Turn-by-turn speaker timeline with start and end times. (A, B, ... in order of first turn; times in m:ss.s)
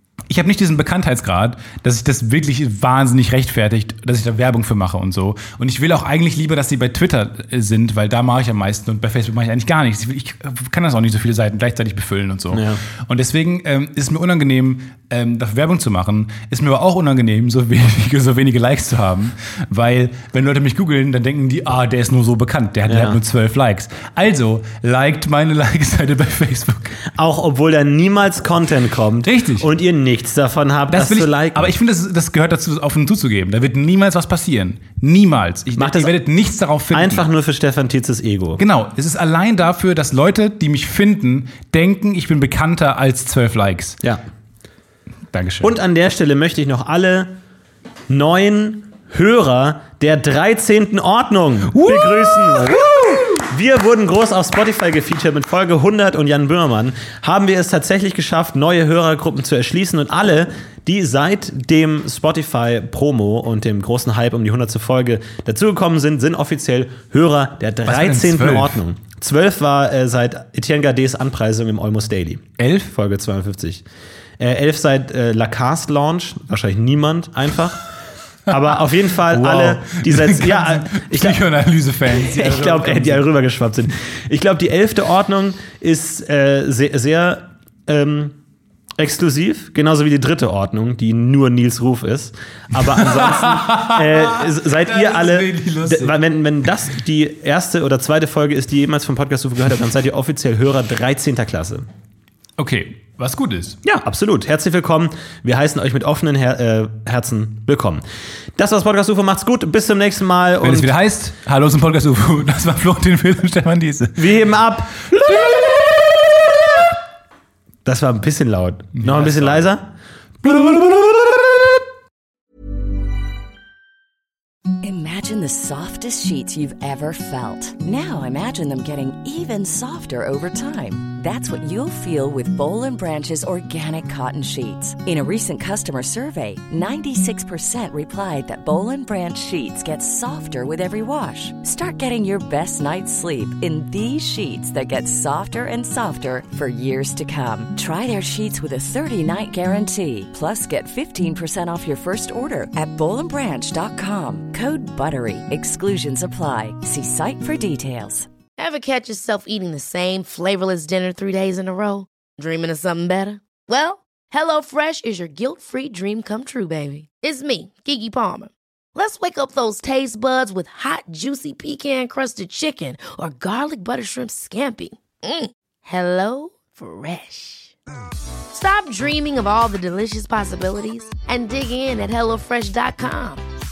0:00.3-0:27.0 A
0:12.5-0:12.8 B
0:22.9-0:23.2 B
0:27.1-0:31.7 B
0:29.2-0:29.7 A
0:30.9-0:37.3 A
0:35.8-0:36.1 B
0:36.9-0:38.6 B
0:38.6-0:44.0 A
0:45.3-0:45.8 A
0:45.6-0:47.4 B
0:48.1-1:13.8 B
0:51.7-0:53.2 A
1:07.8-1:08.8 A
1:12.6-1:12.9 A
1:14.4-1:17.9 B
1:18.5-1:21.4 B
1:19.2-1:23.3 A
1:22.2-1:28.4 B
1:29.0-1:41.9 B
1:32.8-1:36.2 A
1:42.6-1:43.8 A
1:43.8-1:48.0 B
1:48.6-1:50.9 B
1:50.6-1:54.4 A
1:54.2-1:56.0 B
1:55.1-1:55.7 A
1:57.8-1:59.9 B
1:59.0-1:59.7 A
2:00.5-2:01.1 B
2:04.8-2:38.3 C
2:38.6-2:57.8 D
2:58.5-3:03.4 D